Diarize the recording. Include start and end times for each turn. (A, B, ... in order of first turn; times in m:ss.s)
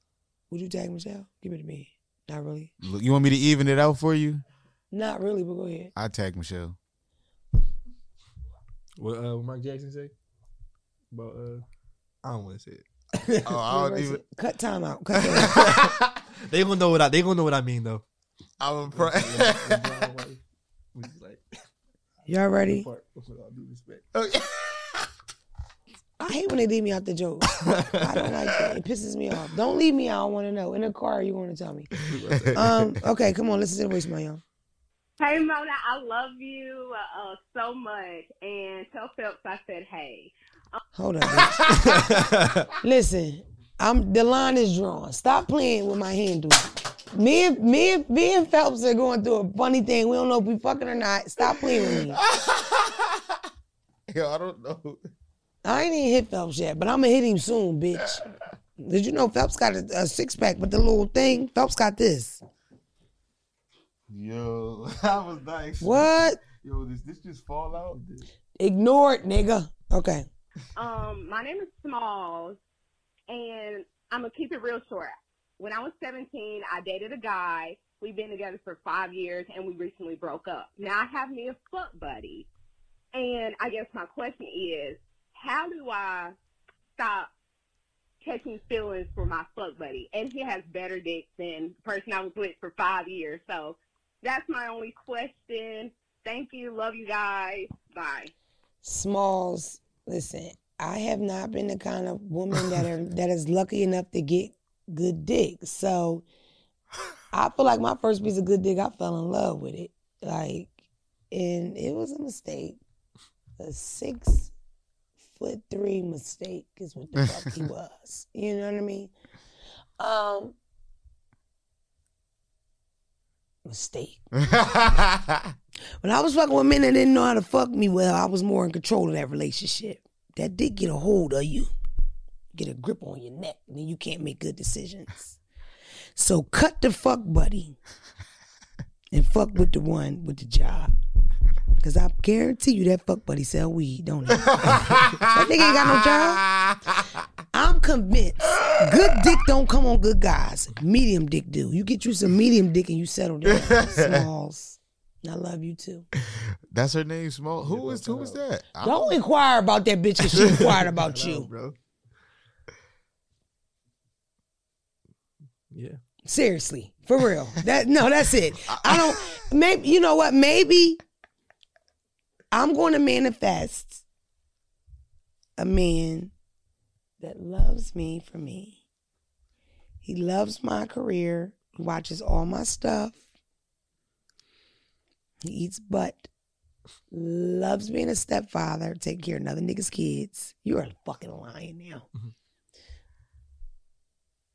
0:00.5-0:02.7 A
0:02.8-0:04.4 B
0:04.9-0:05.9 A
0:06.0-0:06.8 B
0:09.0-0:10.1 C
0:11.1-0:11.6 C
0:12.2-0:13.5 C
0:13.4-0:14.2 B
0:13.7-0:15.6 A
0:15.2-0:16.2 B
0:15.5-0:18.0 C
0:18.6-0:20.0 B
0:18.9-0:20.4 C
0:20.9-0:21.4 C
0:22.3-0:22.9 A
0:22.6-0:24.0 C
0:24.1-0:25.1 B
0:26.2-0:31.9 A
0:27.5-0:28.3 C
0:32.0-0:32.7 C
0:32.3-0:33.0 B
0:32.5-0:34.4 A
0:35.2-0:40.8 D
0:41.0-0:41.7 A
0:41.4-0:41.9 B
0:41.7-0:42.7 C
0:42.8-0:52.2 A
0:51.8-0:53.4 B
0:54.1-0:55.0 B
0:55.6-0:58.2 A
0:58.8-1:02.4 A
1:04.1-1:08.0 B
1:05.8-1:06.4 A
1:07.9-1:08.2 C
1:08.6-1:10.3 A
1:10.8-1:12.6 D
1:13.3-1:22.5 D
1:23.1-1:26.3 D
1:27.0-1:27.3 D
1:28.2-1:38.3 D
1:38.8-1:46.2 A
1:47.3-1:50.8 A
1:51.3-1:52.8 A
1:53.6-1:54.5 A
1:55.3-1:59.1 A
2:00.0-2:00.6 A
2:03.7-2:04.2 A
2:04.4-2:05.5 B
2:06.0-2:11.7 A
2:12.5-2:15.4 A
2:16.2-2:17.8 A
2:19.1-2:20.9 A
2:21.8-2:24.8 A
2:24.5-2:27.3 B
2:25.3-2:26.4 A
2:27.5-2:36.1 A
2:33.5-2:34.3 B
2:36.2-2:39.1 B
2:37.6-2:38.4 C
2:38.8-2:41.5 A
2:40.3-2:41.8 C
2:45.7-2:46.0 C
2:46.3-2:51.0 A
2:48.7-2:49.4 B
2:52.5-2:54.0 A
2:55.6-2:56.3 A
2:57.2-2:58.8 A
3:00.0-3:03.2 A
3:05.4-3:06.3 A
3:07.1-3:12.1 A